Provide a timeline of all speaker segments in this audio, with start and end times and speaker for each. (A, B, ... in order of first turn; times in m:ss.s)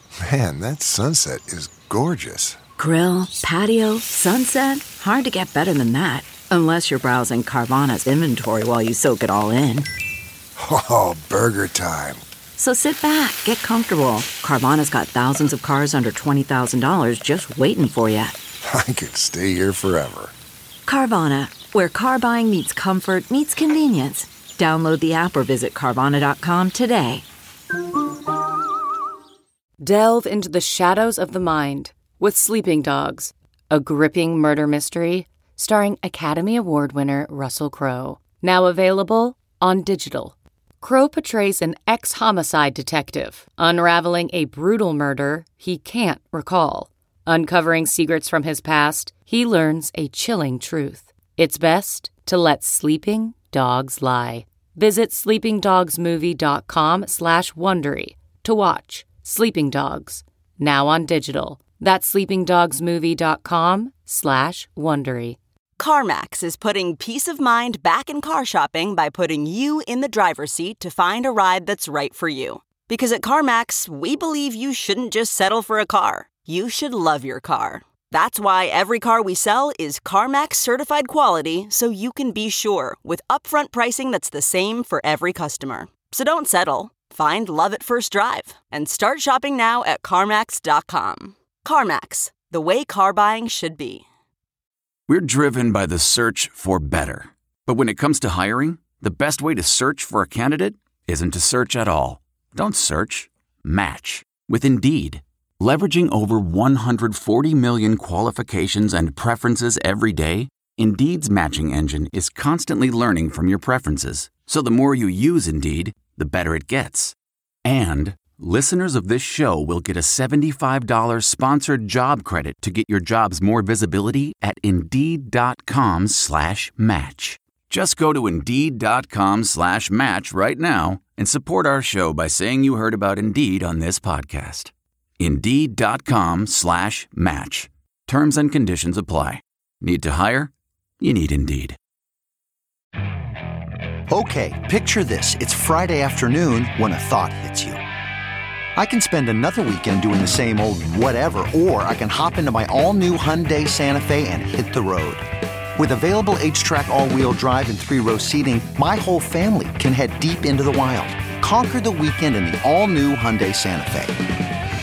0:00.2-0:02.6 A
0:02.8-0:09.9 B
0:10.6-0:12.2 A
0:12.6-0:18.4 B
0:18.6-0:20.3 A
0:20.9-0:27.2 B
0:29.8-1:05.4 C
1:05.8-1:34.0 D
1:35.1-2:21.8 E
2:24.1-2:27.8 F
2:28.8-2:35.2 F
2:35.8-2:44.2 F